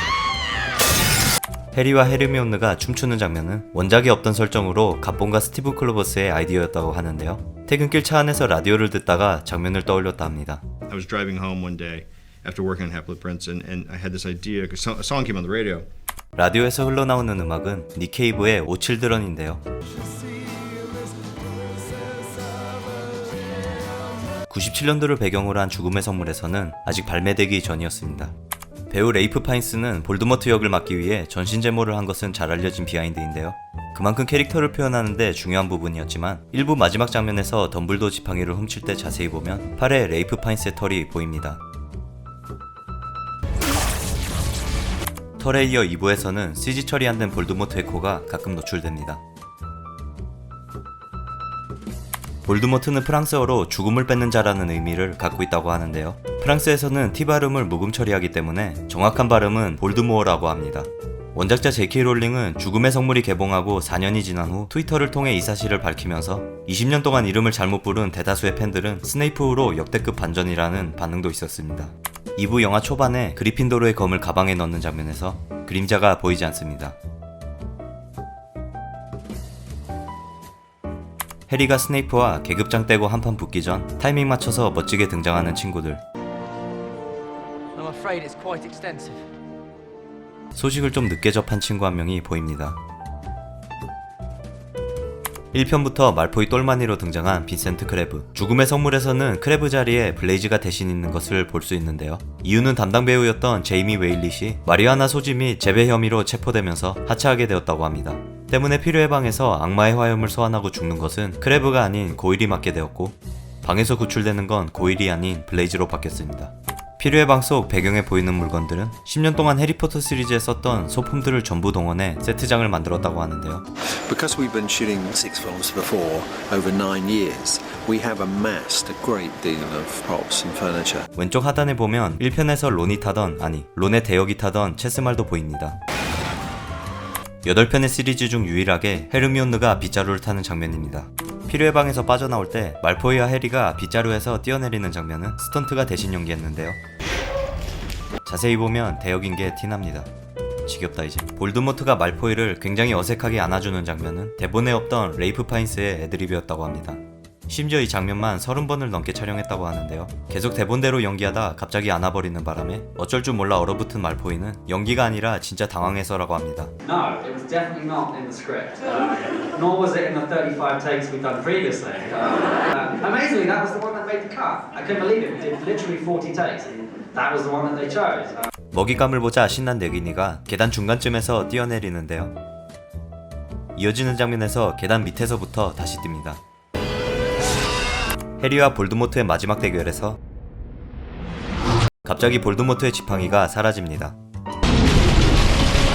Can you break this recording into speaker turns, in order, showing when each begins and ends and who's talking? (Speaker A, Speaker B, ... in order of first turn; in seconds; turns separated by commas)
Speaker A: 1.7-10.6, Speaker B: 10.9-15.9, Speaker A: 16.4-19.6, Speaker A: 24.5-28.3, Speaker A: 28.9-41.6, Speaker A: 45.4-49.2, Speaker A: 52.4-77.0, Speaker A: 81.5-86.0, Speaker C: 88.0-89.1, Speaker A: 90.5-92.8, Speaker A: 95.5-123.6, Speaker D: 124.1-131.1, Speaker A: 131.1-135.8, Speaker A: 137.4-146.8, Speaker A: 148.2-150.1, Speaker A: 150.7-166.7, Speaker C: 166.8-178.5, Speaker A: 178.7-182.3, Speaker A: 183.8-186.4, Speaker A: 188.4-190.2, Speaker A: 192.0-194.1